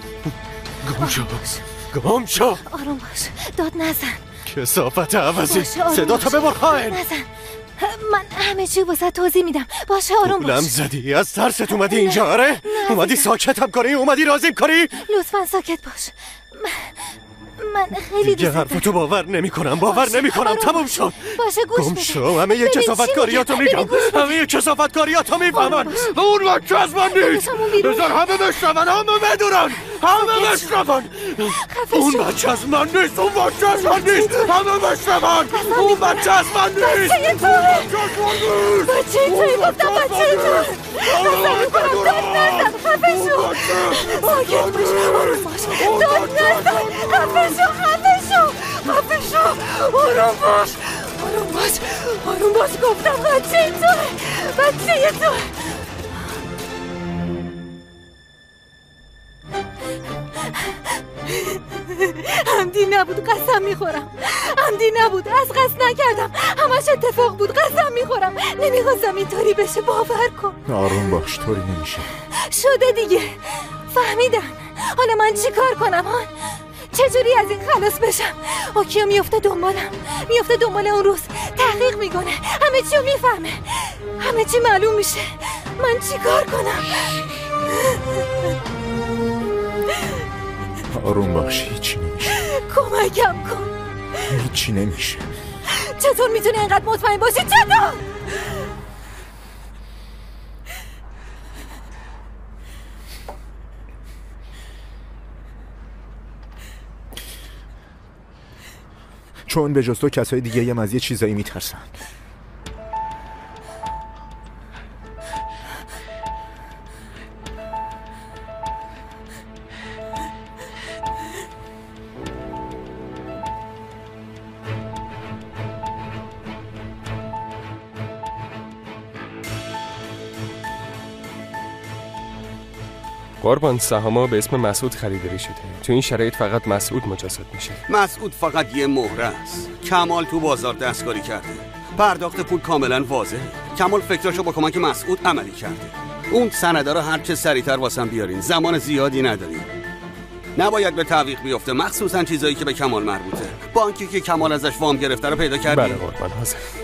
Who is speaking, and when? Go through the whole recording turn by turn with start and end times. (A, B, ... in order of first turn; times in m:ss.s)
0:00.8-0:02.6 A
0:01.0-0:01.6 B
0:02.6-0:04.2 B
0:04.5-0:07.0 A
0:05.4-0:10.7 B
0:10.2-0:15.0 A
0:11.7-0:13.3 B
0:15.0-0:18.9 B
0:18.2-0:47.6 A
0:19.8-0:24.4 B
0:25.5-0:26.1 B
0:27.0-0:28.7 B
0:29.9-0:30.8 B
0:31.5-0:32.4 B
0:33.7-0:34.6 B
0:35.5-0:55.8 B
1:01.3-1:10.6 B
1:10.7-1:12.1 C
1:12.4-1:28.2 B
1:30.9-1:32.4 C
1:32.3-1:33.7 B
1:34.3-1:35.3 C
1:35.7-1:38.1 B
1:49.5-1:51.9 C
2:13.4-2:17.8 D
2:17.9-2:29.7 E
2:30.6-2:36.0 E
2:35.6-2:36.7 D